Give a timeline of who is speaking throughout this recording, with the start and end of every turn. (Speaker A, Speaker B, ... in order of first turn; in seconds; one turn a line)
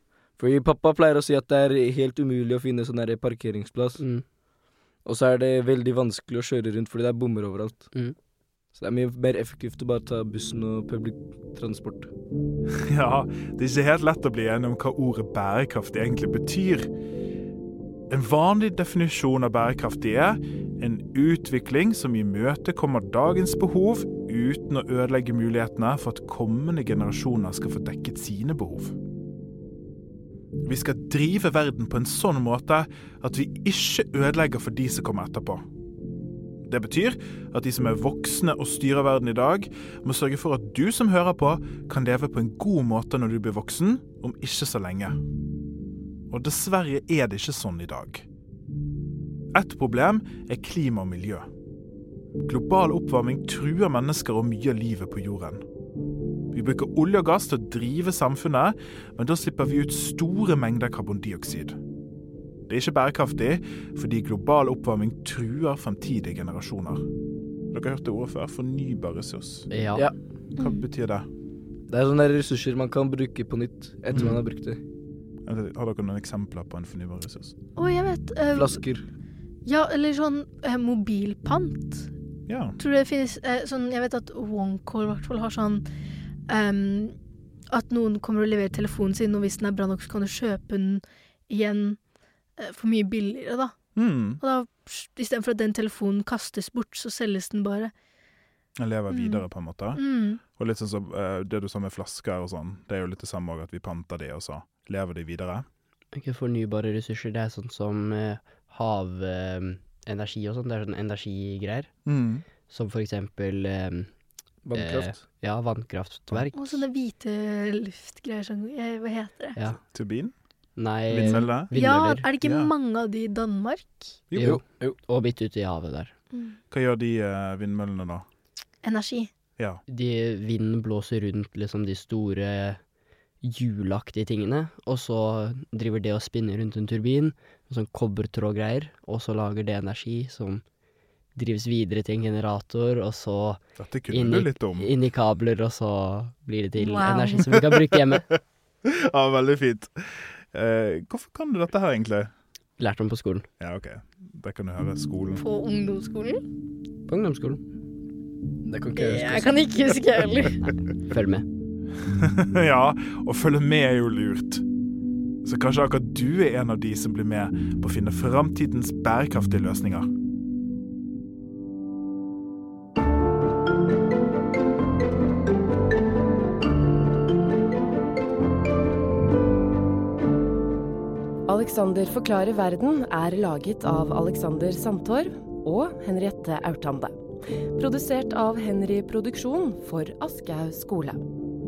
Speaker A: 0.4-4.0
Speaker A: 5.0-7.9
Speaker A: 8.7-12.1
Speaker B: 12.7-16.9
Speaker B: 18.1-29.0
Speaker B: 30.6-35.6
Speaker B: 36.7-45.2
Speaker B: 46.3-48.3
Speaker B: 49.5-51.5
Speaker B: 52.4-55.6
Speaker B: 56.5-61.8
Speaker B: 62.7-67.0
Speaker B: 67.7-69.7
Speaker C: 69.7-70.1
Speaker B: 70.6-71.3
Speaker A: 71.9-74.8
Speaker B: 74.1-74.4
Speaker B: 75.5-77.6
Speaker D: 77.8-78.8
Speaker A: 78.5-79.0
Speaker D: 79.7-82.1
Speaker B: 82.5-82.8
Speaker D: 82.8-85.8
Speaker D: 86.5-87.2
Speaker D: 87.7-92.0
Speaker D: 92.6-93.8
Speaker B: 94.0-94.4
Speaker D: 94.4-97.9
Speaker B: 98.8-105.7
Speaker D: 99.1-100.4
Speaker C: 106.1-111.9
Speaker B: 112.1-112.5
Speaker C: 112.7-114.1
Speaker A: 114.7-115.2
Speaker C: 114.7-116.8
Speaker D: 116.5-119.6
Speaker B: 119.9-120.3
Speaker C: 120.8-122.3
Speaker B: 121.1-121.7
Speaker D: 121.2-124.2
Speaker B: 122.4-122.7
Speaker B: 124.3-124.6
Speaker C: 124.4-126.1
Speaker A: 124.4-125.0
Speaker B: 126.7-128.2
Speaker D: 128.8-129.3
Speaker C: 129.9-132.8
Speaker C: 133.4-140.6
Speaker C: 141.4-148.3
Speaker B: 143.8-144.9
Speaker D: 146.8-147.5
Speaker B: 147.6-148.2
Speaker B: 148.8-149.9
Speaker B: 150.5-152.3
Speaker C: 152.8-153.5
Speaker B: 153.6-155.4
Speaker D: 155.4-156.4
Speaker C: 157.1-157.6
Speaker A: 158.7-159.7
Speaker D: 158.9-160.7
Speaker C: 160.9-161.5
Speaker B: 162.1-164.6
Speaker B: 165.4-170.1
Speaker E: 181.5-191.3